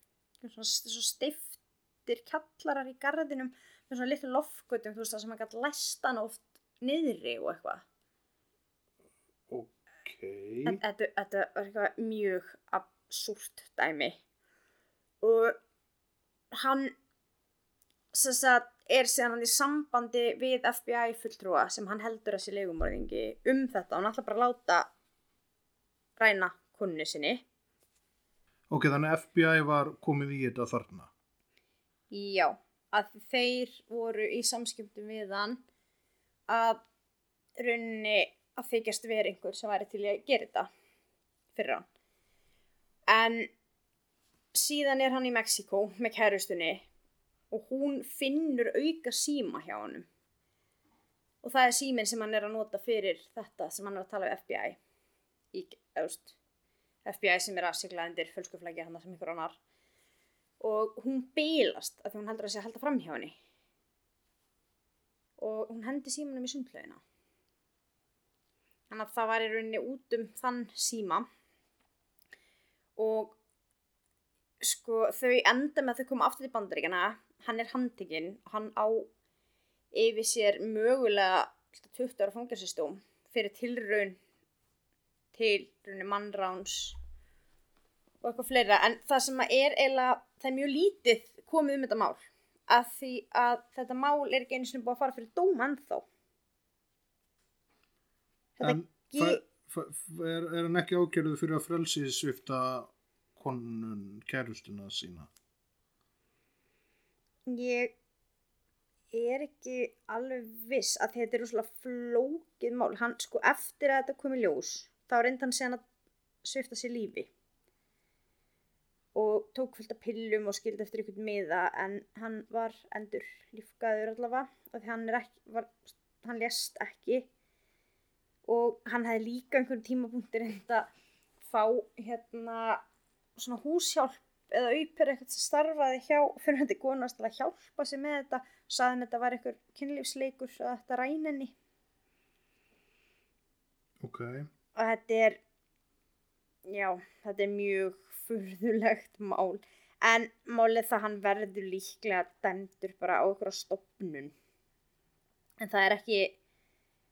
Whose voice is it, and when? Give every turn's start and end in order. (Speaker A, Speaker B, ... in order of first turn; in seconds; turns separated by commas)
Speaker A: 0.4-7.8, Speaker B: 9.5-10.8, Speaker A: 10.7-14.2, Speaker A: 15.2-15.6, Speaker A: 16.5-16.9, Speaker A: 18.1-24.9, Speaker A: 26.2-27.4, Speaker B: 28.7-31.1, Speaker A: 32.1-35.6, Speaker A: 36.5-36.8, Speaker A: 37.6-40.7, Speaker A: 41.5-41.9, Speaker A: 43.1-43.5, Speaker A: 44.5-46.9, Speaker A: 47.5-50.1, Speaker A: 51.4-54.8, Speaker A: 55.5-56.4, Speaker A: 57.0-59.6, Speaker A: 60.6-63.4, Speaker A: 65.4-67.0, Speaker A: 68.9-71.3, Speaker A: 73.0-73.4, Speaker A: 74.6-79.1, Speaker A: 79.9-84.2, Speaker A: 85.3-87.0, Speaker A: 88.2-96.0, Speaker A: 98.6-99.4, Speaker B: 98.6-105.3, Speaker A: 107.5-107.9, Speaker A: 109.1-115.8, Speaker A: 116.4-117.3, Speaker A: 119.1-127.3, Speaker A: 128.5-130.9, Speaker A: 131.4-132.8, Speaker A: 133.4-141.5, Speaker B: 144.0-144.5, Speaker A: 144.8-145.4, Speaker A: 146.7-154.3, Speaker A: 155.6-156.4